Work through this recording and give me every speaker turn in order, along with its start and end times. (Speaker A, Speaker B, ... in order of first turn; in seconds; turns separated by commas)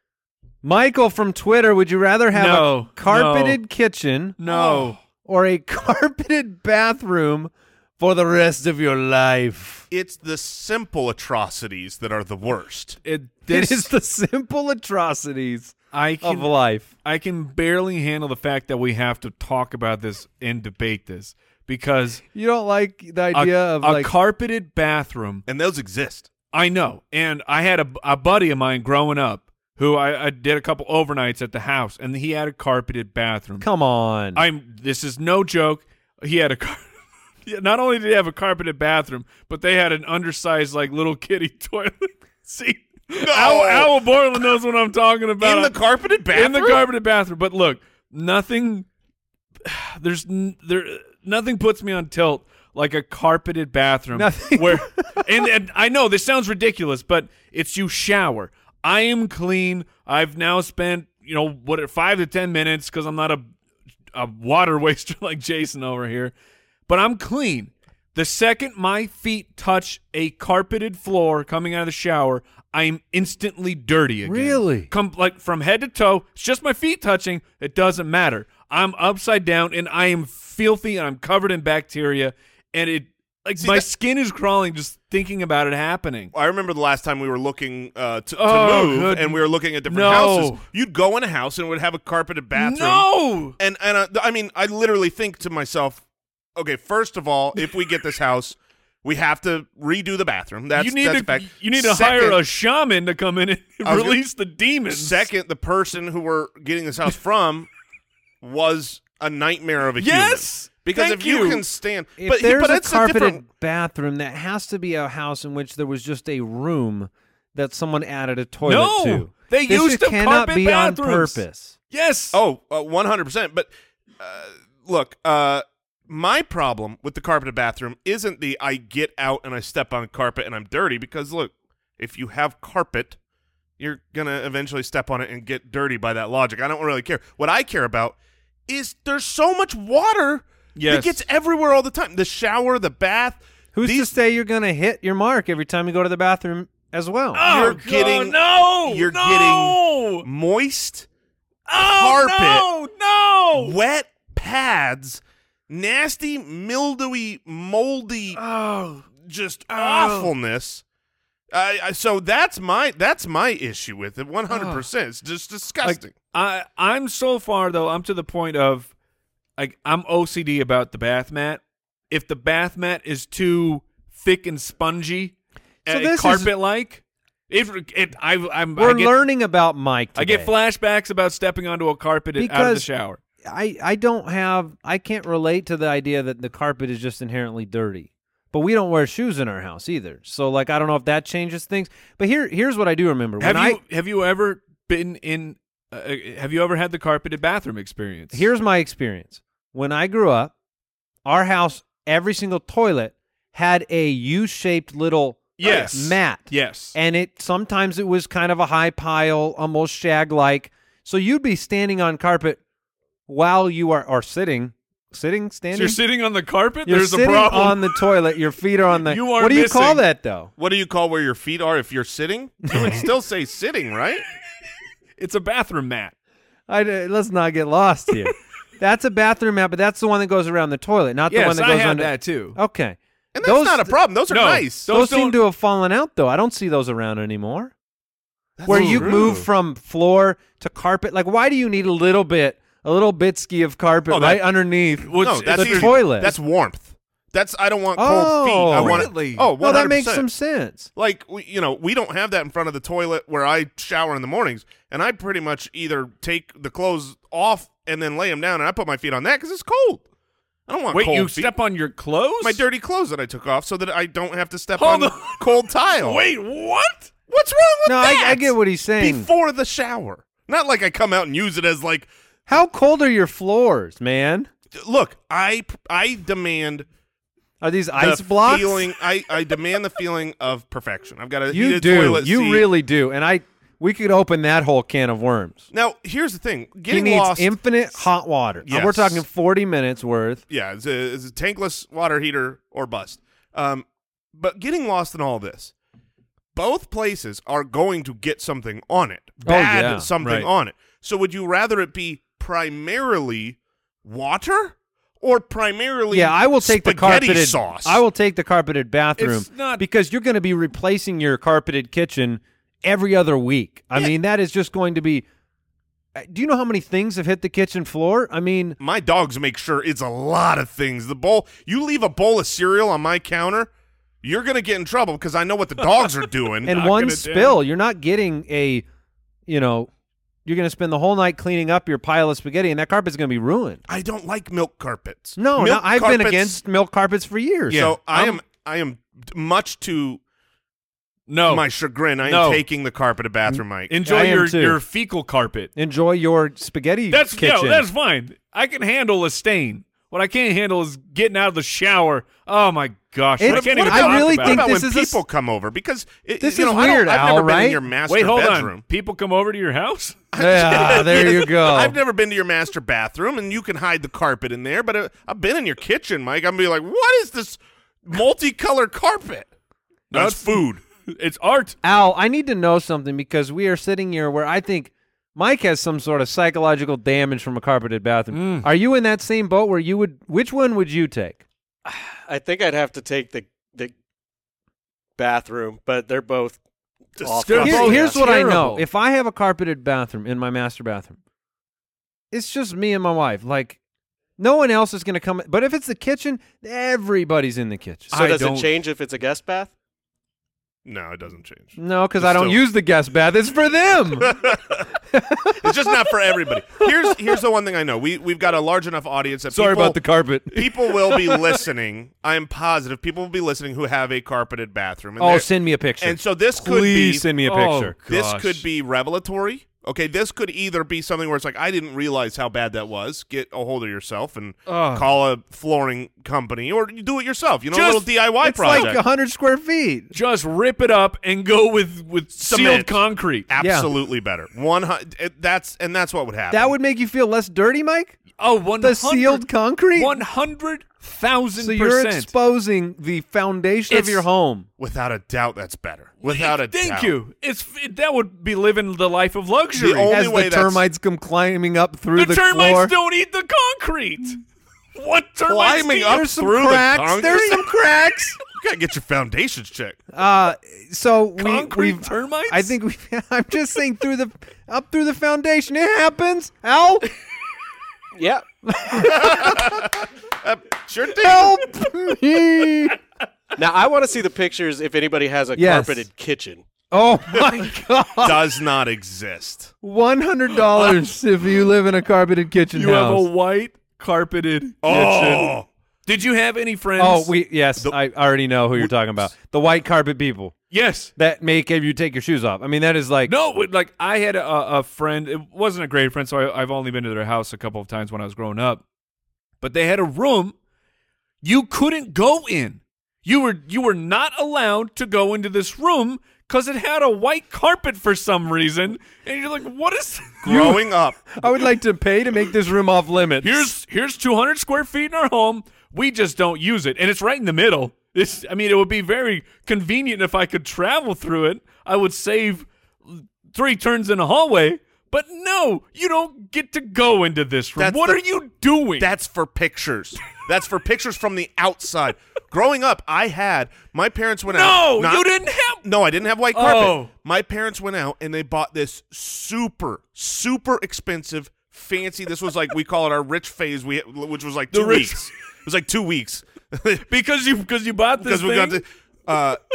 Speaker A: 0.6-4.4, Speaker B: 2.3-3.6, Speaker B: 4.4-5.0, Speaker C: 4.5-4.9, Speaker A: 5.2-9.9, Speaker C: 9.9-13.0, Speaker B: 13.1-13.9, Speaker A: 13.5-16.9, Speaker B: 15.9-22.2, Speaker A: 22.3-24.1, Speaker B: 23.3-25.4, Speaker C: 25.5-26.3, Speaker B: 26.5-33.7, Speaker A: 33.6-34.4, Speaker B: 34.4-36.9, Speaker B: 37.5-45.8, Speaker C: 43.2-44.0, Speaker C: 45.4-46.9, Speaker B: 46.3-48.9, Speaker B: 49.6-63.5, Speaker A: 54.1-55.2, Speaker B: 64.1-66.3, Speaker B: 66.9-86.3, Speaker A: 74.2-74.9, Speaker C: 83.6-83.9, Speaker C: 86.3-96.0, Speaker B: 88.4-90.6, Speaker B: 92.6-93.6, Speaker C: 96.6-102.4, Speaker B: 100.8-105.3, Speaker C: 103.8-104.2, Speaker C: 104.9-107.7, Speaker C: 108.4-113.4, Speaker B: 110.0-111.6, Speaker A: 112.2-121.8, Speaker B: 118.6-122.4, Speaker C: 122.3-133.2, Speaker C: 133.8-138.2, Speaker C: 138.7-144.1, Speaker B: 140.8-141.2, Speaker A: 143.8-147.4, Speaker B: 147.3-150.3, Speaker C: 147.4-151.1, Speaker B: 151.7-153.8, Speaker C: 151.8-152.7, Speaker C: 153.6-158.4, Speaker B: 158.4-159.1, Speaker C: 159.2-160.8, Speaker B: 159.7-160.3, Speaker C: 161.5-166.2, Speaker B: 164.5-164.8, Speaker B: 165.8-168.9, Speaker B: 169.6-175.3, Speaker B: 175.9-179.2, Speaker A: 175.9-176.5, Speaker A: 178.8-180.5, Speaker B: 180.2-183.2, Speaker A: 182.4-182.9, Speaker A: 183.4-193.8, Speaker B: 193.4-198.5, Speaker A: 198.3-200.5, Speaker A: 201.2-212.6, Speaker B: 205.6-206.9, Speaker A: 213.3-216.0, Speaker B: 215.7-218.1, Speaker A: 216.9-220.5, Speaker B: 219.0-220.0, Speaker C: 220.6-224.2, Speaker B: 225.2-226.1, Speaker A: 226.7-234.0, Speaker B: 231.3-232.6, Speaker C: 233.3-234.9, Speaker B: 234.3-235.4, Speaker A: 234.9-237.7, Speaker C: 238.6-239.5, Speaker A: 238.7-246.3, Speaker B: 238.7-239.5, Speaker C: 244.1-244.4, Speaker B: 245.1-246.1, Speaker C: 245.2-250.3, Speaker A: 248.0-250.9, Speaker B: 248.7-249.5, Speaker C: 250.9-260.0, Speaker C: 260.7-261.5, Speaker B: 260.9-262.6, Speaker C: 262.4-266.2, Speaker B: 264.8-265.5, Speaker B: 266.0-267.1, Speaker C: 267.3-272.1, Speaker A: 267.9-269.3, Speaker A: 272.5-274.5, Speaker C: 274.7-276.9, Speaker A: 277.6-278.9, Speaker C: 278.0-282.7, Speaker A: 281.5-285.7, Speaker C: 285.7-288.1, Speaker A: 286.9-290.4, Speaker C: 288.6-289.2, Speaker C: 290.5-295.7, Speaker C: 296.5-308.0, Speaker A: 299.4-300.1, Speaker B: 300.2-300.5, Speaker A: 306.1-315.2, Speaker B: 309.2-309.8, Speaker A: 316.2-318.8, Speaker C: 318.8-323.7, Speaker C: 324.2-326.8, Speaker B: 326.6-327.6, Speaker A: 326.7-328.9, Speaker A: 329.5-329.9, Speaker A: 330.4-333.8, Speaker C: 333.9-336.6, Speaker A: 335.4-337.9, Speaker C: 337.7-340.2, Speaker B: 337.7-338.4, Speaker B: 341.3-341.7, Speaker C: 341.5-343.9, Speaker B: 342.2-342.6, Speaker B: 343.9-345.7, Speaker A: 344.0-344.8, Speaker A: 345.8-347.9, Speaker B: 347.1-354.7, Speaker A: 353.4-355.2, Speaker C: 353.4-358.8, Speaker A: 356.4-357.8, Speaker B: 358.1-360.3, Speaker C: 360.3-369.5, Speaker A: 360.4-362.0, Speaker B: 370.1-371.8, Speaker C: 370.1-370.8, Speaker A: 371.8-381.4, Speaker B: 378.3-378.7, Speaker D: 381.9-383.9, Speaker D: 385.2-386.6, Speaker D: 387.2-388.2, Speaker C: 387.2-388.1, Speaker B: 387.4-388.9, Speaker A: 387.6-391.2, Speaker A: 392.3-393.8, Speaker A: 394.4-398.1, Speaker B: 398.1-398.7, Speaker D: 398.1-399.7, Speaker C: 400.9-402.6, Speaker A: 401.8-404.4, Speaker C: 404.2-404.9, Speaker A: 405.1-405.9, Speaker C: 405.6-410.0, Speaker A: 409.5-411.4, Speaker C: 410.5-417.3, Speaker A: 415.2-417.9, Speaker B: 417.4-418.6, Speaker C: 418.1-429.0, Speaker B: 424.7-425.0, Speaker B: 427.7-428.9, Speaker A: 428.4-430.1, Speaker B: 430.1-433.5, Speaker C: 432.4-436.7, Speaker A: 433.6-433.9, Speaker A: 436.5-438.2, Speaker B: 438.4-442.3, Speaker A: 438.8-440.2, Speaker A: 441.6-444.7, Speaker B: 443.9-444.2, Speaker C: 444.8-447.2, Speaker B: 446.2-450.1, Speaker C: 449.8-450.9, Speaker A: 450.1-452.9, Speaker B: 452.2-454.4, Speaker B: 455.0-456.3, Speaker C: 455.4-457.7, Speaker A: 456.1-458.4, Speaker C: 458.5-460.0, Speaker A: 460.1-467.1, Speaker B: 461.4-462.8, Speaker D: 468.2-468.5, Speaker A: 468.6-469.9, Speaker C: 469.0-471.6, Speaker A: 471.2-473.0, Speaker D: 473.6-476.6, Speaker A: 475.6-476.0, Speaker A: 476.9-478.4, Speaker C: 478.2-479.7, Speaker A: 479.8-483.3, Speaker B: 482.7-485.6, Speaker C: 484.8-485.7, Speaker B: 486.1-487.3, Speaker A: 487.0-490.6, Speaker B: 490.7-491.1, Speaker A: 491.2-493.3, Speaker B: 493.3-498.8, Speaker B: 499.6-500.6, Speaker B: 501.4-510.8, Speaker C: 510.4-511.2, Speaker A: 511.4-513.7, Speaker B: 513.4-529.1, Speaker C: 527.8-528.2, Speaker C: 529.0-535.3, Speaker B: 534.5-535.8, Speaker C: 535.8-547.0, Speaker B: 536.5-537.1, Speaker B: 544.7-545.3, Speaker B: 547.1-548.8, Speaker C: 548.2-549.6